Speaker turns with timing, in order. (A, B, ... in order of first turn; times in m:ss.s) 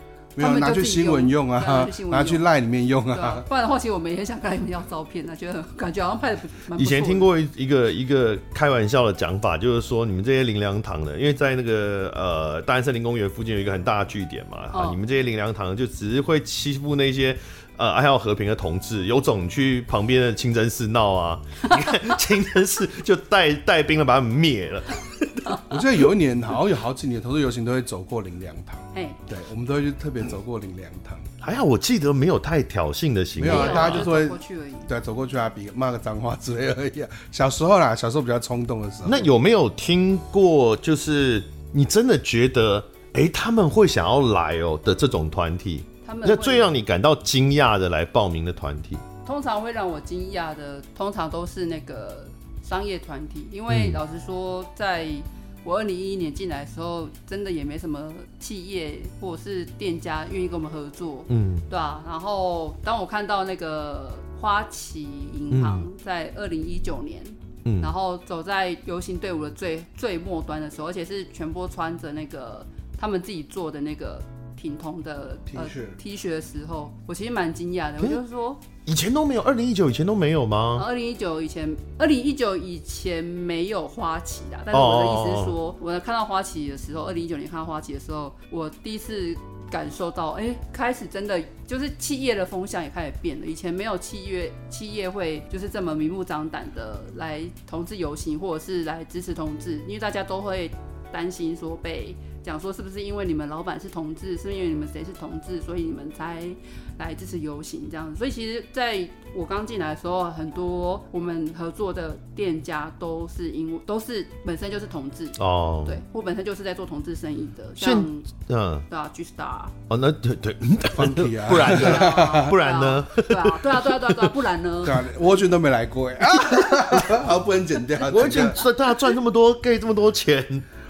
0:00.4-0:03.4 A
0:00.4-0:02.4 B
0:03.1-0:07.3 B
0:06.8-0:25.6 C
0:14.7-0:15.0 B
0:25.7-0:31.3 A
0:28.9-0:29.2 B
0:31.4-0:34.1 C
0:33.4-0:39.3 A
0:33.4-0:34.9 B
0:39.0-0:49.0 C
0:46.0-0:46.8 B
0:49.2-1:18.6 B
0:53.7-0:54.0 C
1:01.3-1:01.7 C
1:05.5-1:05.8 C
1:07.6-1:07.9 C
1:15.5-1:16.0 A
1:18.8-1:20.8 C
1:20.7-1:58.3 B
1:24.7-1:25.5 C
1:55.4-1:56.0 C
1:57.8-1:58.8 C
1:58.9-1:59.7 B
1:59.9-2:04.3 C
2:00.9-2:02.5 A
2:01.6-2:05.1 B
2:04.8-2:08.6 A
2:08.0-2:10.6 C